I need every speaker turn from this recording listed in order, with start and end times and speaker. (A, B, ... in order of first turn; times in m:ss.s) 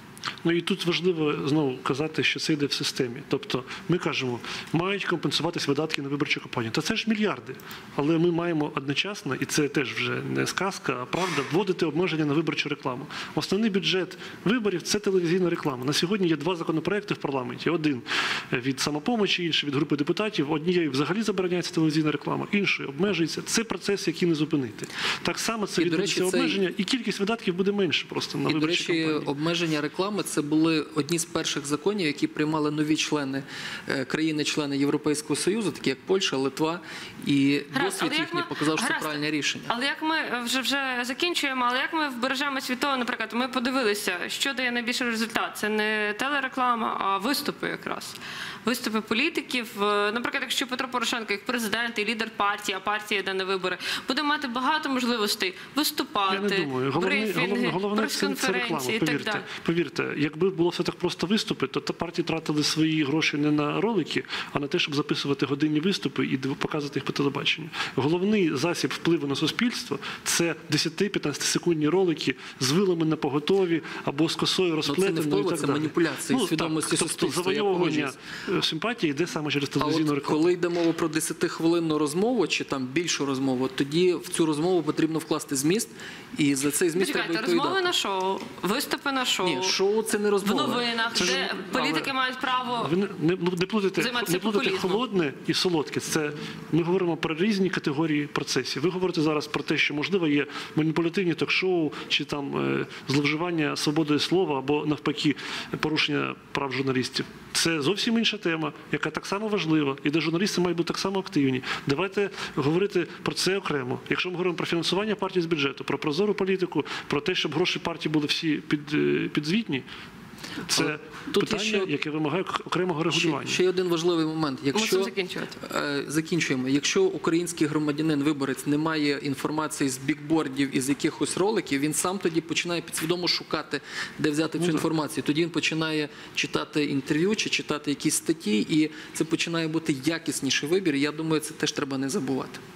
0:00.4-0:29.3 A
0:25.8-0:26.7 B
0:28.5-0:39.7 B
0:37.7-0:59.4 C
0:56.3-1:20.5 A
1:14.8-1:18.2 B
1:19.8-1:27.9 B
1:27.0-1:29.8 C
1:29.4-1:30.9 B
1:30.4-1:32.9 C
1:31.1-1:32.1 A
1:32.8-1:59.9 A
1:34.0-1:35.0 C
2:00.7-2:03.6 A
2:00.7-2:01.9 B
2:03.1-2:22.6 B
2:04.7-2:05.6 C
2:14.6-2:14.8 A